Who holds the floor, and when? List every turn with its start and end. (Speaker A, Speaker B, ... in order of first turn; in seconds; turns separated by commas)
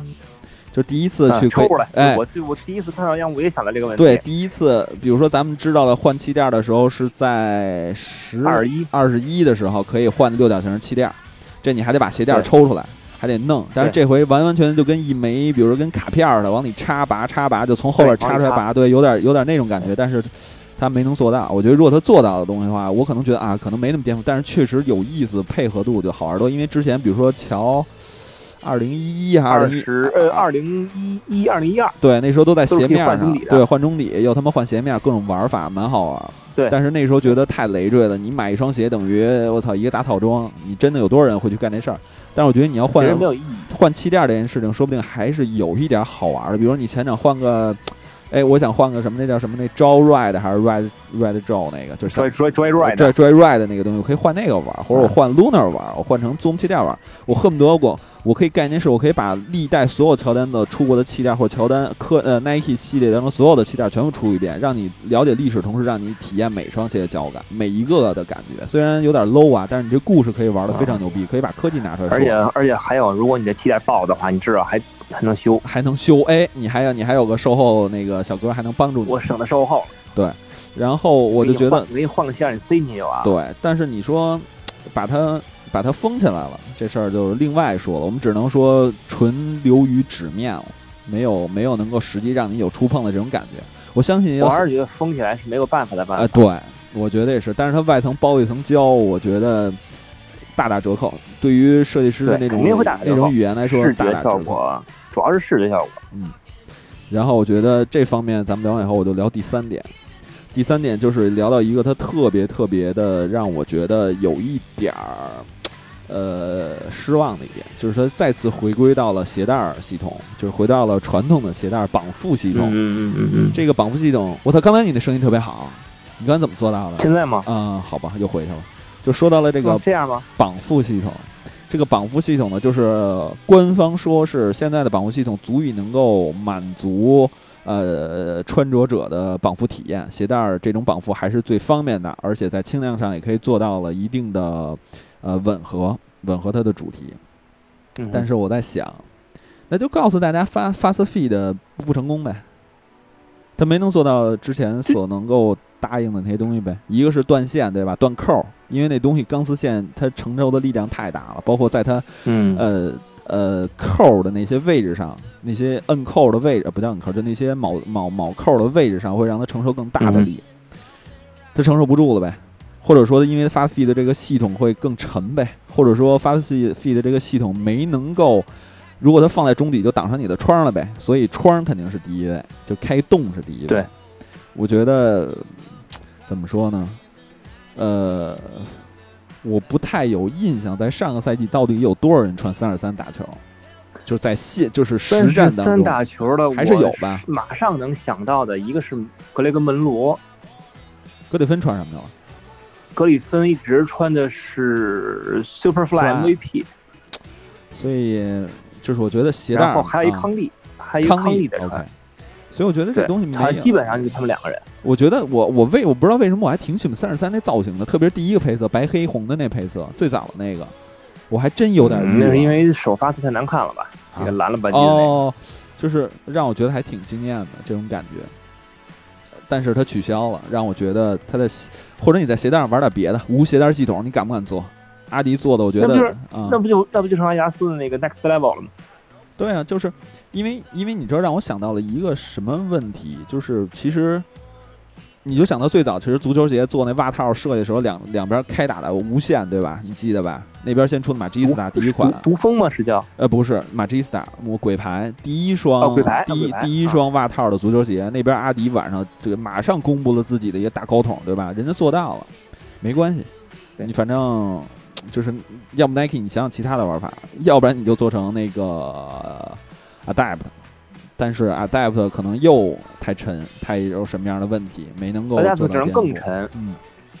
Speaker A: 0.7-2.2, Speaker B: 1.3-4.2, Speaker A: 4.0-30.5, Speaker B: 8.4-8.9, Speaker B: 18.0-18.6, Speaker B: 29.5-32.0, Speaker A: 32.0-72.4, Speaker B: 32.7-33.6, Speaker B: 43.0-43.7, Speaker B: 52.1-53.1, Speaker B: 70.7-71.0, Speaker B: 72.1-75.6, Speaker A: 75.6-79.2, Speaker B: 79.0-79.9, Speaker A: 80.1-81.9, Speaker B: 81.4-83.3, Speaker A: 83.2-94.6, Speaker B: 94.4-96.4, Speaker A: 96.1-99.8, Speaker A: 100.5-104.6, Speaker B: 102.2-106.0, Speaker A: 106.1-106.4, Speaker A: 107.1-109.9, Speaker A: 110.5-115.5, Speaker A: 116.1-122.8, Speaker B: 122.5-123.6, Speaker A: 123.5-129.8, Speaker B: 127.0-127.5, Speaker B: 129.6-130.2, Speaker A: 130.4-147.2, Speaker B: 148.0-148.2, Speaker A: 148.1-149.1, Speaker A: 149.7-152.4, Speaker A: 153.6-170.4, Speaker B: 162.2-162.6, Speaker B: 170.0-170.3, Speaker A: 171.5-183.9, Speaker A: 184.5-187.0, Speaker A: 187.7-188.8, Speaker A: 189.4-193.4, Speaker A: 194.1-196.0, Speaker B: 195.1-200.2, Speaker A: 196.5-197.2, Speaker A: 201.3-202.1, Speaker B: 202.9-206.7, Speaker A: 205.9-206.4, Speaker A: 207.7-210.3, Speaker B: 209.5-211.8, Speaker A: 211.0-211.9, Speaker A: 212.5-214.1, Speaker B: 212.9-214.6, Speaker A: 214.8-220.7, Speaker A: 221.3-222.6, Speaker B: 221.8-225.1, Speaker A: 224.1-228.3, Speaker A: 229.5-236.6, Speaker B: 235.8-238.7, Speaker A: 239.4-244.2, Speaker A: 245.2-252.2, Speaker B: 251.4-253.1, Speaker A: 253.2-270.5, Speaker B: 255.8-257.0, Speaker A: 271.2-276.8, Speaker B: 275.3-276.5